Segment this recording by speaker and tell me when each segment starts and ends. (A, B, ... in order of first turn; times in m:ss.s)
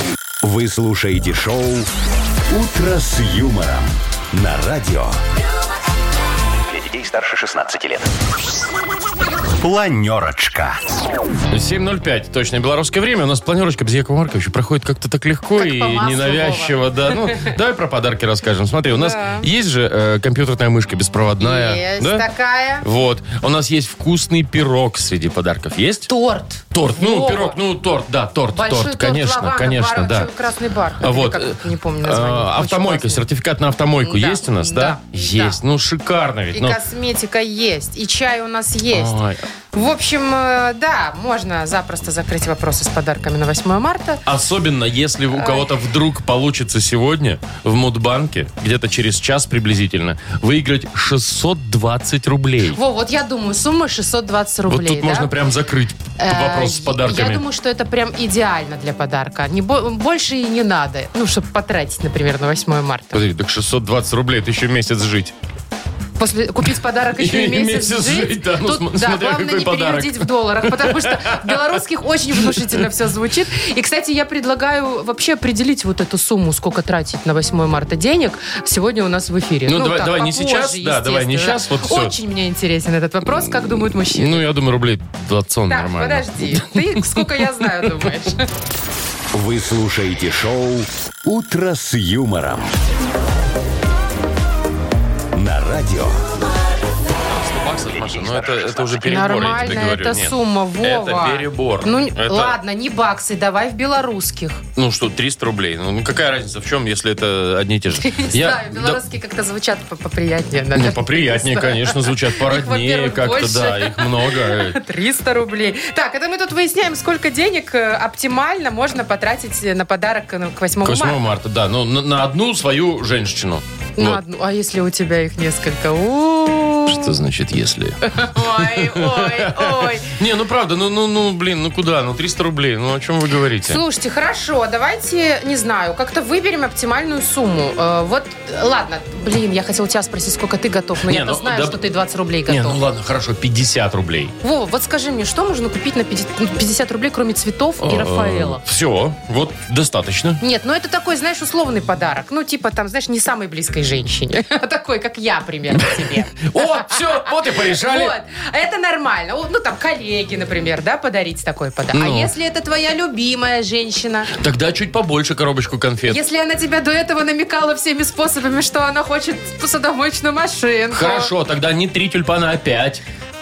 0:00.4-0:01.9 A
0:02.5-0:05.2 A
0:06.7-0:08.1 A
0:09.6-0:10.8 A
0:11.5-0:22.2 B
0:15.6-0:17.5 C
0:18.9-0:19.5 C
0:21.4-0:22.8 C
0:22.8-0:26.1 B
0:26.1-0:27.6 C
0:26.7-0:30.3 B
0:28.5-0:33.2 C
0:31.0-0:36.8 B
0:34.0-0:35.6 C
0:36.5-0:39.1 C
0:38.9-0:39.4 B
0:39.7-0:44.2 C
0:44.2-0:52.8 B
0:45.3-0:45.7 C
0:52.7-0:55.3 C
0:54.7-0:57.4 B
0:56.2-1:03.2 C
1:03.1-1:05.3 B
1:06.2-1:24.4 C
1:07.2-1:11.8 B
1:19.7-1:22.1 B
1:24.0-1:27.2 B
1:25.7-1:28.4 C
1:29.3-1:32.7 A
1:35.3-1:36.2 A
1:37.2-1:42.6 B
1:37.9-1:39.1 A
1:39.0-1:44.6 C
1:44.8-1:49.0 B
1:48.0-2:01.2 C
1:50.7-1:54.8 B
2:00.8-2:04.2 B
2:04.0-2:07.2 C
2:06.9-2:13.8 B
2:08.0-2:10.2 C
2:13.7-2:22.8 C
2:21.1-2:21.8 B
2:22.5-2:24.3 B
2:24.4-2:28.6 C
2:27.8-2:30.4 B
2:30.4-2:44.3 C
2:35.7-2:38.1 B
2:41.9-2:42.3 B
2:44.4-2:46.2 B
2:46.1-2:51.3 C
2:50.9-2:53.0 B